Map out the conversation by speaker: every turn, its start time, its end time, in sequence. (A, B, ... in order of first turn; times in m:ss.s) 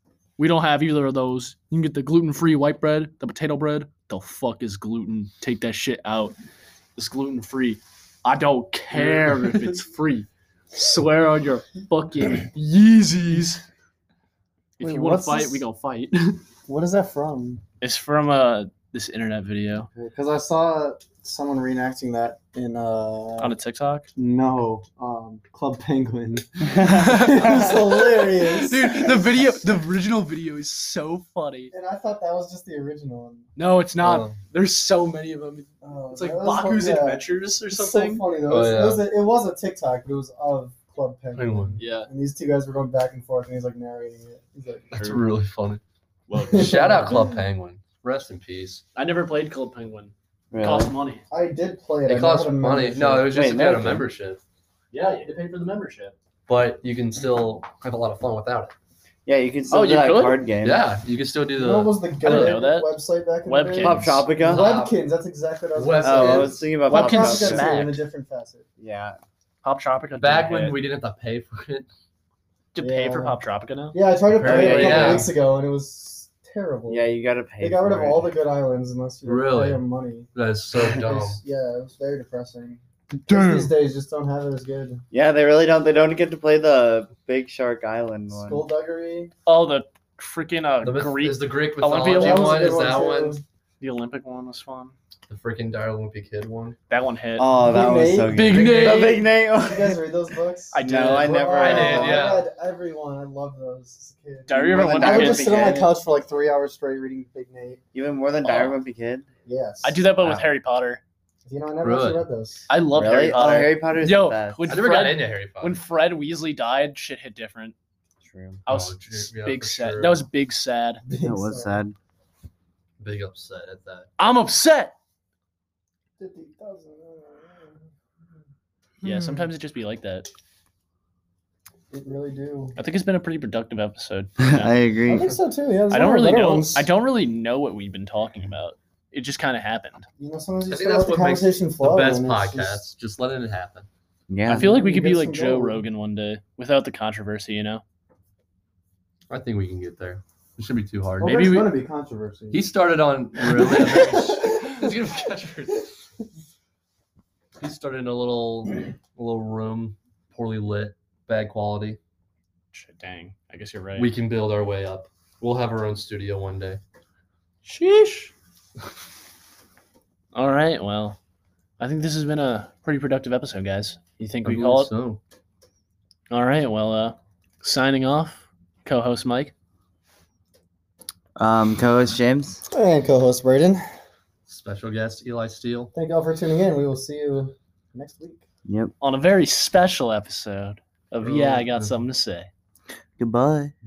0:00.4-0:06.3 A
0:07.0-0:13.6 A
0:08.9-0:09.8 B
0:14.8-0:15.6 C
0:14.8-0:16.4 A
0:16.7-0:17.6 C
0:17.8-0:19.9 A
0:19.9-0:23.5 C
0:23.4-0:24.1 A
0:24.2-0:29.3 C
0:26.8-0:31.7 A
0:31.7-0:33.5 C
0:33.6-0:38.2 A
0:34.0-0:34.3 B
0:35.8-0:45.0 C
0:38.5-0:39.0 B
0:41.3-0:41.8 B
0:41.8-0:42.1 A
0:44.9-0:45.8 B
0:44.9-0:45.3 A
0:46.3-0:47.3 A
0:46.3-0:47.3 C
0:46.5-0:48.8 B
0:49.0-0:51.2 A
0:50.5-0:50.9 D
0:51.3-0:53.3 C
0:52.1-0:54.4 B
0:53.3-0:54.1 D
0:54.9-0:56.2 A
0:56.5-0:58.7 B
0:59.2-1:00.9 D
0:59.7-1:00.4 A
1:00.6-1:02.6 B
1:01.6-1:08.7 C
1:02.2-1:02.9 A
1:03.4-1:04.3 A
1:03.8-1:04.7 D
1:04.4-1:04.9 B
1:05.7-1:06.6 B
1:06.0-1:07.7 D
1:06.9-1:08.0 A
1:08.8-1:09.2 D
1:09.6-1:10.8 A
1:10.2-1:11.9 B
1:12.7-1:14.0 A
1:12.8-1:13.4 C
1:13.9-1:17.0 C
1:14.3-1:15.3 B
1:14.4-1:15.3 D
1:16.9-1:18.3 D
1:17.6-1:20.3 C
1:19.2-1:19.8 B
1:20.3-1:21.4 B
1:20.8-1:25.0 C
1:23.3-1:23.7 A
1:25.1-1:28.6 D
1:28.3-1:29.3 C
1:29.4-1:32.8 A
1:30.8-1:33.4 B
1:32.1-1:33.4 C
1:33.8-1:34.9 A
1:35.3-1:36.8 B
1:36.9-1:37.5 A
1:37.4-1:40.0 D
1:37.6-1:47.8 C
1:38.3-1:39.2 A
1:38.5-1:39.0 B
1:40.7-1:42.1 A
1:40.8-1:42.3 D
1:41.6-1:42.4 B
1:44.5-1:45.8 A
1:44.5-1:45.9 D
1:47.9-1:49.3 D
1:48.4-1:48.8 A
1:49.4-1:50.0 C
1:49.8-1:51.0 A
1:50.2-1:50.5 B
1:51.4-1:52.7 C
1:51.8-1:52.2 B
1:52.7-1:57.8 A
1:52.9-1:54.7 D
1:54.7-1:55.8 B
1:58.2-1:58.6 D
1:58.6-2:01.0 A
1:58.7-2:00.2 B
2:01.0-2:01.8 C
2:01.2-2:02.0 D
2:03.0-2:04.1 B
2:04.2-2:04.9 A
2:06.2-2:07.8 C
2:09.0-2:10.3 A
2:11.9-2:12.8 C
2:12.8-2:14.7 A
2:14.4-2:15.3 D
2:15.1-2:16.8 C
2:15.9-2:20.0 A
2:20.2-2:22.8 C
2:20.7-2:23.8 B
2:24.3-2:24.7 D
2:24.5-2:27.8 A
2:24.5-2:25.8 C
2:29.3-2:31.7 B
2:31.2-2:32.6 C
2:32.5-2:35.9 B
2:37.6-2:42.0 B
2:42.7-2:44.1 A
2:44.0-2:46.8 B
2:47.6-2:48.3 A
2:50.3-2:51.2 A
2:51.8-2:54.9 A
2:54.4-2:55.2 B
2:56.3-2:59.5 A
3:01.4-3:02.6 D
3:02.7-3:03.8 C
3:04.5-3:05.9 B
3:05.9-3:08.4 C
3:08.6-3:08.9 D
3:09.0-3:12.5 A
3:11.2-3:11.9 B
3:13.2-3:13.7 D